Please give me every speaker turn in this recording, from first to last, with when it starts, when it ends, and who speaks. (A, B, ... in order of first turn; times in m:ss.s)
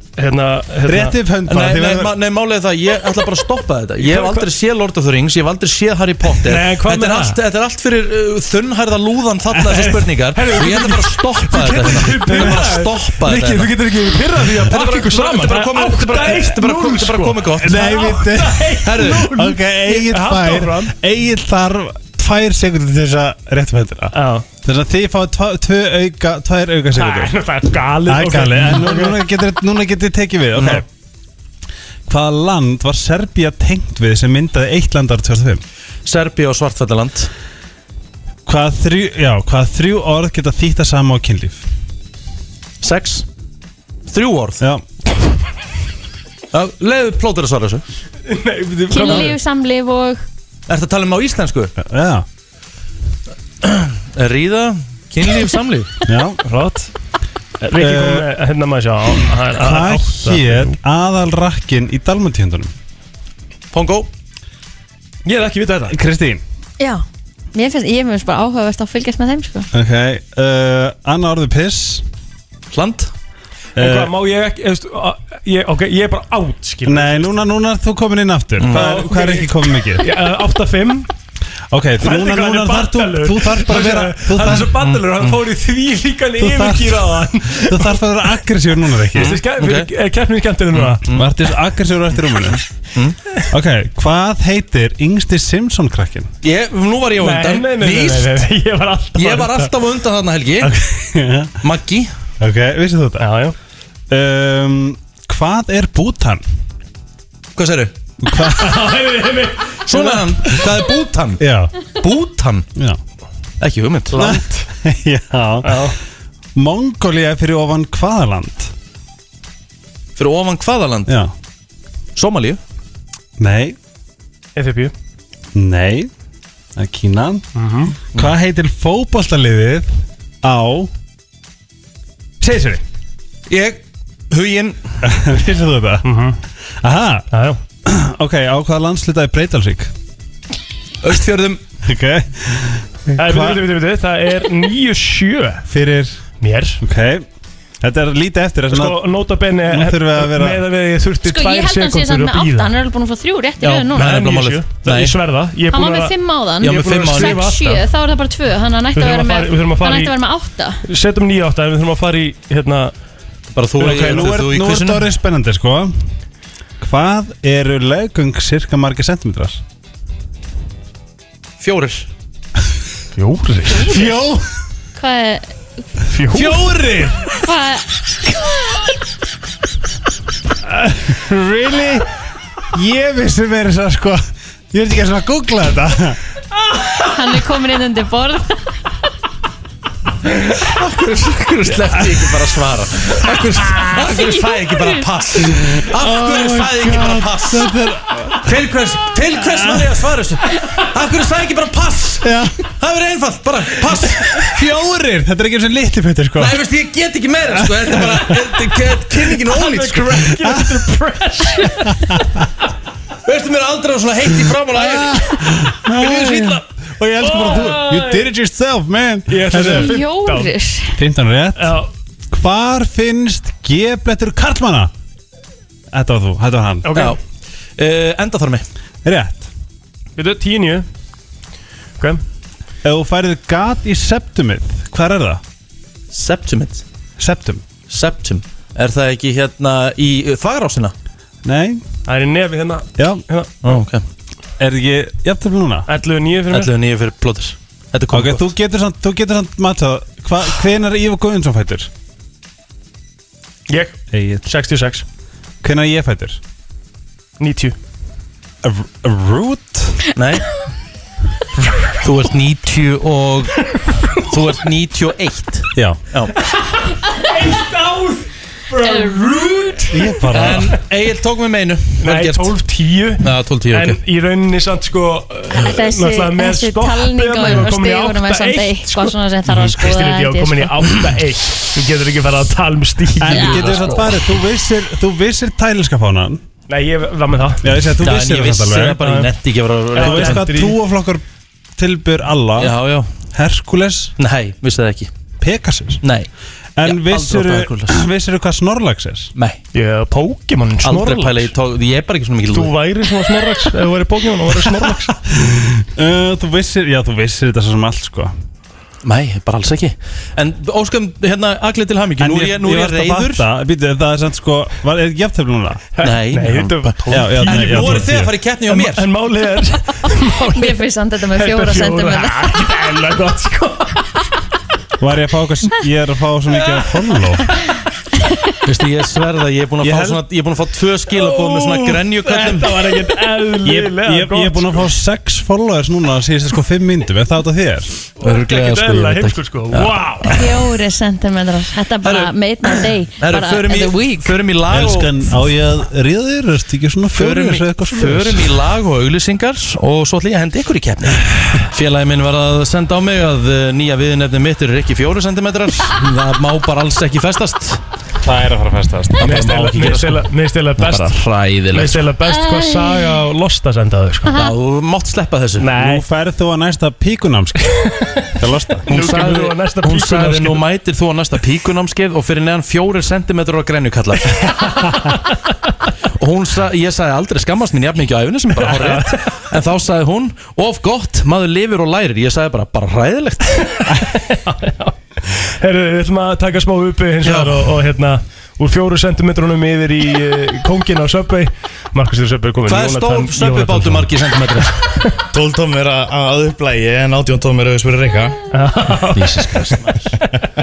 0:00.2-0:01.2 A
0:00.9-0:02.1 B
0:01.5-0:13.7 C
0:04.0-0:04.5 A
0:06.4-0:07.4 A
0:09.5-0:09.9 B
0:10.3-0:20.9 A
0:12.2-0:12.7 B
0:14.5-0:17.9 C
0:17.6-0:27.3 B
0:18.8-0:19.3 C
0:24.1-0:24.4 A
0:26.9-0:29.2 A
0:28.1-0:30.8 B
0:30.5-0:30.8 C
0:32.1-0:35.6 B
0:36.0-0:37.3 C
0:38.4-0:41.6 B
0:42.8-0:43.2 C
0:44.1-0:44.6 C
0:46.5-0:47.8 C
0:48.3-0:49.4 A
0:48.9-0:50.2 D
0:50.7-0:51.7 C
0:51.8-0:52.2 B
0:53.6-0:55.9 C
0:56.1-0:56.6 B
0:56.4-0:56.9 A
0:57.6-1:00.8 A
0:57.7-0:58.3 B
0:59.5-1:02.7 B
1:03.7-1:04.1 C
1:05.2-1:06.0 A
1:05.9-1:06.4 B
1:06.8-1:09.7 D
1:09.7-1:12.0 B
1:12.7-1:13.1 C
1:13.8-1:14.1 B
1:13.8-1:17.3 A
1:16.8-1:20.0 B
1:18.6-1:18.9 C
1:18.7-1:21.1 A
1:21.7-1:24.9 B
1:22.0-1:28.0 A
1:24.8-1:25.4 C
1:26.4-1:29.4 B
1:29.1-1:31.1 A
1:29.1-1:29.9 C
1:30.7-1:31.3 C
1:31.1-1:32.6 B
1:33.5-1:36.3 B
1:36.4-1:38.4 C
1:37.2-1:39.7 A
1:39.1-1:40.7 C
1:40.7-1:41.6 B
1:41.6-1:42.1 C
1:42.4-1:43.3 B
1:43.2-1:43.5 A
1:44.1-1:46.4 B
1:47.6-1:47.9 C
1:48.2-1:48.9 B
1:48.4-1:50.6 A
1:49.9-1:52.7 C
1:51.4-1:51.9 B
1:53.6-1:54.3 C
1:54.1-1:54.6 A
1:54.2-1:55.9 B
1:55.6-1:56.0 A
1:56.5-1:58.7 B
2:00.2-2:01.2 C
2:01.1-2:01.3 B
2:02.2-2:02.6 C
2:03.4-2:03.8 B
2:04.6-2:04.9 A
2:05.5-2:06.1 B
2:06.7-2:10.9 B
2:07.6-2:07.9 A
2:12.4-2:12.8 B
2:13.5-2:14.8 C
2:15.0-2:16.1 B
2:16.0-2:16.4 A
2:16.8-2:17.3 B
2:17.3-2:17.6 A
2:17.8-2:19.9 B
2:21.0-2:21.6 C
2:21.8-2:23.7 B
2:23.2-2:25.6 A
2:25.7-2:26.2 B
2:26.4-2:26.8 A
2:26.8-2:27.3 B
2:27.8-2:29.0 B
2:28.7-2:32.7 A
2:29.7-2:30.6 B
2:31.2-2:34.2 D
2:33.6-2:35.2 C
2:33.9-2:37.8 A
2:35.7-2:40.8 D
2:36.6-2:37.8 C
2:38.9-2:40.1 A
2:40.8-2:42.9 A
2:43.5-2:45.1 C
2:43.8-2:45.9 B
2:43.8-2:44.2 A
2:46.8-2:49.6 B
2:51.6-2:52.1 C
2:53.2-2:54.0 A
2:53.8-2:54.5 B
2:54.9-2:55.5 D
2:56.1-2:56.6 A
2:56.3-2:57.3 B
2:56.4-2:56.7 C
2:57.4-2:57.9 D
3:00.8-3:02.1 B
3:02.7-3:06.2 B
3:07.0-3:08.7 D
3:10.6-3:17.7 C
3:12.0-3:12.4 B
3:15.4-3:18.7 B
3:18.4-3:24.6 C
3:19.3-3:20.1 B
3:22.2-3:22.6 B
3:24.4-3:26.6 B
3:26.4-3:30.2 C
3:27.5-3:29.2 B
3:29.5-3:32.4 A
3:30.3-3:30.8 B
3:31.6-3:32.2 B
3:33.2-3:35.3 C
3:34.7-3:39.9 B
3:35.9-3:36.6 C
3:37.2-3:38.3 A
3:39.3-3:40.5 A
3:39.6-3:40.9 D
3:41.0-3:41.8 B
3:41.6-3:41.9 A
3:42.3-3:44.9 B
3:45.9-3:46.8 B
3:46.8-3:47.2 A
3:46.9-3:47.2 C
3:47.8-3:48.6 C
3:49.0-3:49.5 B
3:50.2-3:50.9 A
3:52.8-3:55.4 B
3:56.1-3:56.8 C
3:57.2-3:57.6 B
3:57.9-4:00.9 C
4:01.4-4:01.8 B
4:02.1-4:03.7 A
4:03.0-4:03.2 B
4:03.6-4:04.0 C
4:04.6-4:05.9 B
4:05.9-4:06.7 A
4:06.5-4:08.5 C
4:08.1-4:11.9 B
4:13.7-4:15.0 A
4:14.1-4:14.4 B
4:15.6-4:16.4 B
4:17.4-4:17.8 A
4:18.6-4:20.0 B
4:20.2-4:20.5 C
4:22.0-4:23.6 C
4:24.3-4:26.3 C
4:25.7-4:26.0 B
4:26.4-4:30.7 A
4:28.8-4:29.8 D
4:29.9-4:30.7 B
4:30.3-4:32.5 C
4:32.0-4:44.2 A
4:33.2-4:34.0 C
4:35.5-4:41.0 D
4:43.2-4:46.4 B
4:43.3-4:44.0 D
4:46.7-4:47.9 A
4:47.6-4:49.0 B
4:48.0-4:50.5 C
4:49.0-4:49.3 A
4:49.9-4:50.8 A
4:50.0-4:51.2 B
4:51.8-4:52.7 B
4:52.6-4:53.1 C
4:53.3-4:54.1 B
4:54.2-4:55.1 C
4:55.4-4:56.0 B
4:56.0-4:56.3 C
4:56.8-4:59.3 B
4:56.8-4:58.0 C
4:59.7-5:01.5 A
5:00.8-5:02.7 C
5:02.5-5:05.1 A
5:04.9-5:08.3 B
5:09.0-5:13.5 C
5:12.2-5:15.9 B
5:16.0-5:18.1 A
5:16.0-5:19.1 C
5:17.1-5:18.3 B
5:18.7-5:24.2 A
5:20.1-5:22.6 D
5:25.0-5:27.5 B
5:26.5-5:27.1 A
5:28.6-5:32.8 C
5:29.8-5:30.2 B
5:31.1-5:34.9 A
5:33.6-5:37.9 B
5:38.2-5:40.4 A
5:38.2-5:40.6 C
5:40.3-5:44.4 D
5:42.0-5:45.3 C
5:44.7-5:48.5 B
5:47.1-5:57.8 C
5:58.2-5:59.5 B
5:59.2-6:00.3 C
5:59.2-6:01.2 A
6:00.8-6:02.1 C
6:01.7-6:04.3 A
6:02.2-6:03.1 D
6:04.3-6:05.7 C
6:05.6-6:06.0 A
6:05.7-6:07.7 B
6:07.6-6:08.3 A
6:08.4-6:08.9 B
6:08.8-6:10.6 A
6:08.9-6:14.6 C
6:14.4-6:15.5 A
6:16.2-6:23.7 C
6:18.5-6:19.4 A
6:23.6-6:35.2 A
6:27.2-6:27.7 C
6:32.6-6:34.8 C
6:35.3-6:38.4 E
6:38.5-6:40.2 A
6:39.1-6:40.1 C